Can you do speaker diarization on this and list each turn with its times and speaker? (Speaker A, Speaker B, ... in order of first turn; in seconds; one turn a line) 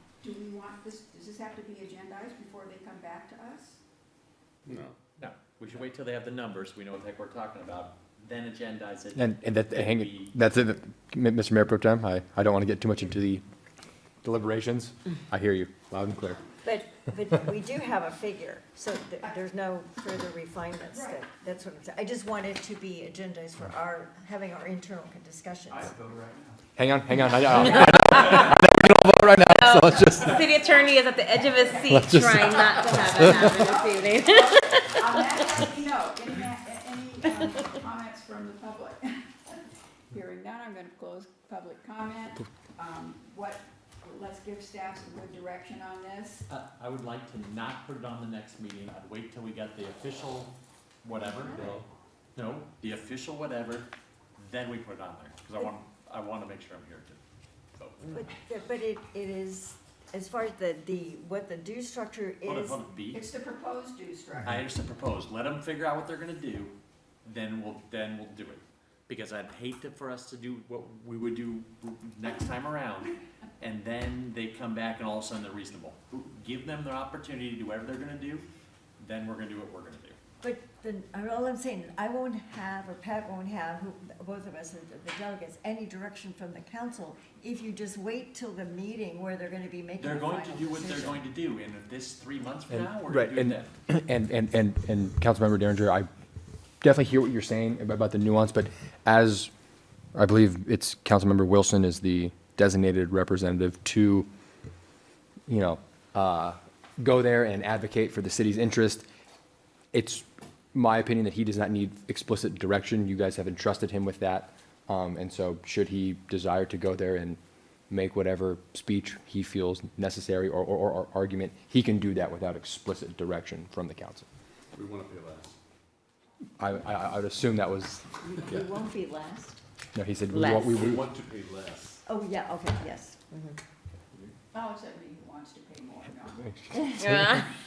Speaker A: 0.2-3.8
Speaker B: 4.7-5.0
Speaker C: 5.2-10.3
Speaker D: 9.2-13.4
Speaker D: 14.2-16.4
Speaker E: 16.6-26.1
Speaker A: 20.9-21.2
Speaker D: 26.8-30.5
Speaker A: 27.2-28.4
Speaker F: 29.5-35.6
Speaker A: 30.4-32.0
Speaker D: 31.9-33.4
Speaker A: 32.5-39.6
Speaker A: 40.1-46.4
Speaker C: 46.5-51.8
Speaker B: 51.5-51.8
Speaker C: 52.4-57.2
Speaker C: 57.8-58.2
Speaker E: 58.1-62.8
Speaker C: 62.4-63.3
Speaker A: 63.1-64.5
Speaker C: 64.4-78.5
Speaker C: 79.0-80.2
Speaker E: 80.4-91.2
Speaker C: 90.0-93.7
Speaker D: 92.7-96.1
Speaker D: 96.8-99.5
Speaker D: 100.2-104.3
Speaker D: 105.5-109.0
Speaker D: 109.9-117.4
Speaker D: 117.9-124.3
Speaker B: 124.7-125.6
Speaker D: 126.6-128.7
Speaker E: 128.2-129.6
Speaker D: 129.9-131.0
Speaker F: 130.3-130.9
Speaker B: 130.7-132.0
Speaker E: 132.1-133.2
Speaker F: 133.3-133.6
Speaker A: 134.5-136.5
Speaker F: 136.8-137.5